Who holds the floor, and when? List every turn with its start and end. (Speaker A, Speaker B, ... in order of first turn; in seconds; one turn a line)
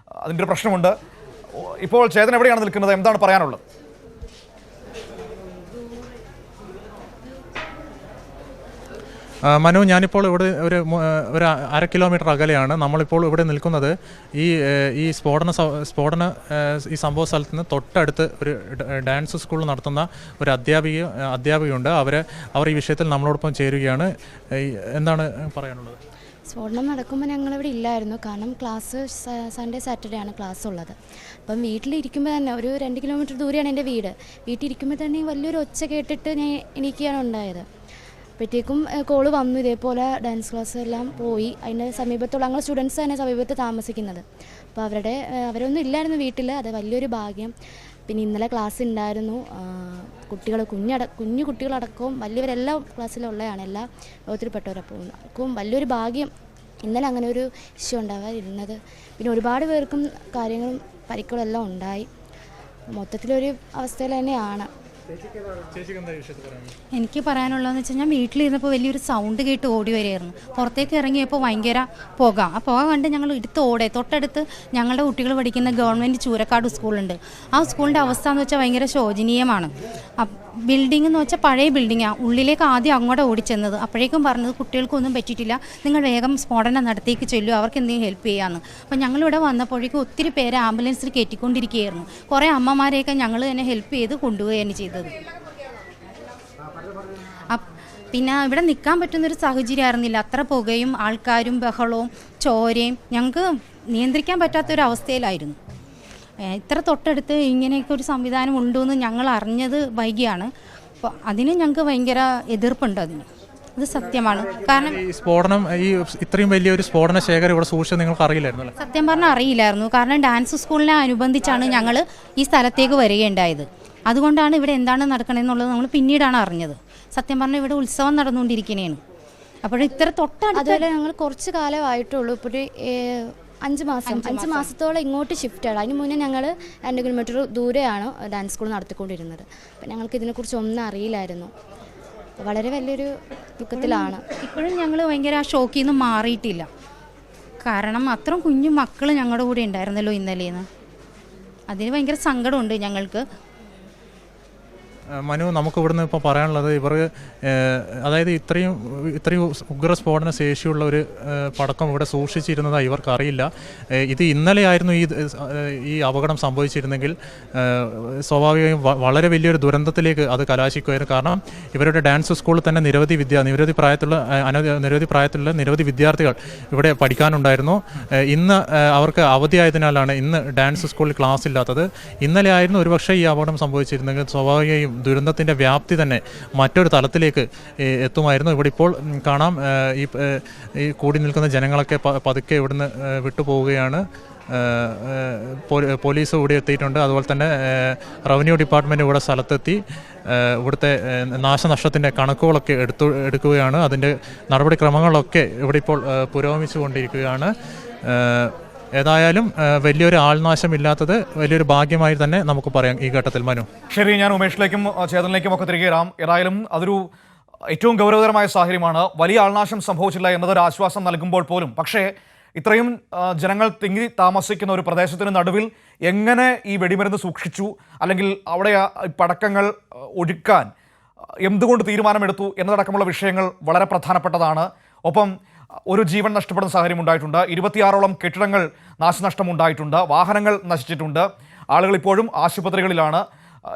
Speaker A: 0.2-0.9
Speaker A: 1.6-3.6
Speaker B: 9.5-26.0
Speaker C: 26.5-30.9
Speaker C: 31.4-37.6
Speaker C: 38.4-47.5
Speaker C: 48.1-56.3
Speaker C: 56.8-62.1
Speaker C: 62.9-64.7
Speaker B: 65.7-66.7
Speaker D: 67.0-95.1
Speaker D: 97.5-105.6
Speaker D: 106.4-110.5
Speaker D: 111.0-113.2
Speaker D: 113.8-115.0
Speaker B: 114.8-118.7
Speaker D: 118.8-129.0
Speaker D: 129.6-130.8
Speaker C: 130.5-141.5
Speaker D: 134.1-134.7
Speaker C: 142.4-144.2
Speaker D: 143.8-146.7
Speaker D: 147.6-150.6
Speaker D: 151.7-153.2
Speaker B: 155.2-207.5
Speaker B: 208.1-213.7
Speaker A: 213.9-217.1
Speaker A: 217.7-230.7
Speaker A: 231.4-235.3
Speaker A: 235.9-243.2